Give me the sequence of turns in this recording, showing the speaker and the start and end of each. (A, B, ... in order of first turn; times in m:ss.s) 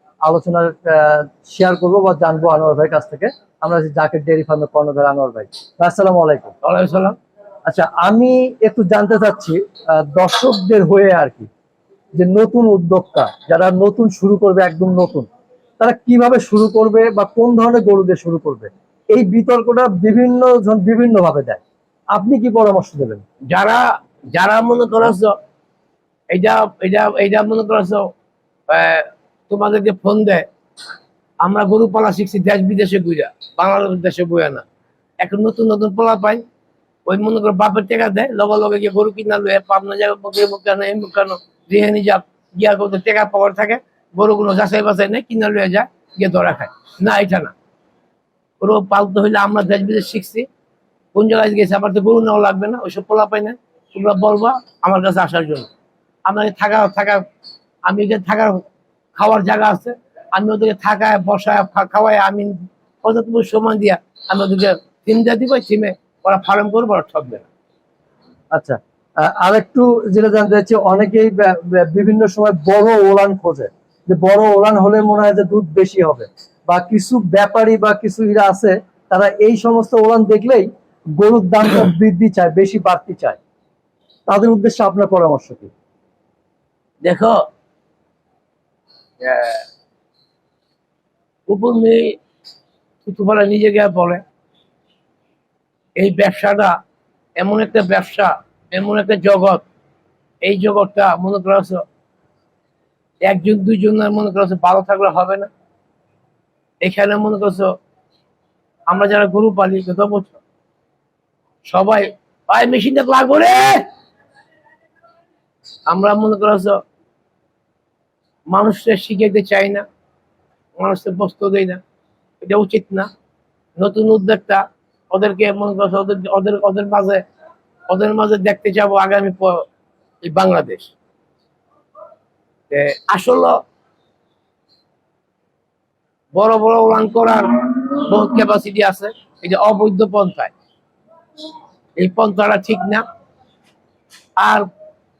0:00.3-0:06.6 A
0:06.6-0:07.2 B
0:07.7-0:11.5 A
0:12.2-0:15.3 A
0:15.8-0:21.6 A
0:22.2-0:23.2 A
0:23.5-0:23.8 B
0:24.4-0:25.3 B
0:26.3-0:28.1 B
0:28.7-0:30.5 B
0:31.4-0:34.6 B
0:35.2-0:36.4 B
0:37.1-0:47.5 B
0:48.6-0:50.5 B
0:51.1-0:55.7 B
0:56.3-0:57.2 B
0:57.9-1:07.5 B
1:08.5-1:23.4 A
1:24.3-1:25.7 A
1:27.0-1:27.4 B
1:29.2-1:29.6 B
1:31.5-1:32.2 B
1:33.0-1:34.2 B
1:36.0-1:36.8 B
1:37.4-1:39.6 B
1:40.4-1:41.8 B
1:43.2-1:45.5 B
1:46.8-1:47.7 B
1:48.9-1:50.4 B
1:51.7-1:53.8 B
1:55.9-1:56.8 B
1:58.5-1:59.9 B
2:00.8-2:01.8 B
2:02.4-2:03.1 B
2:03.8-2:07.2 B
2:07.9-2:09.6 B
2:10.2-2:10.9 B
2:12.7-2:13.6 B
2:16.3-2:20.5 B
2:22.0-2:23.0 B
2:24.4-2:24.7 B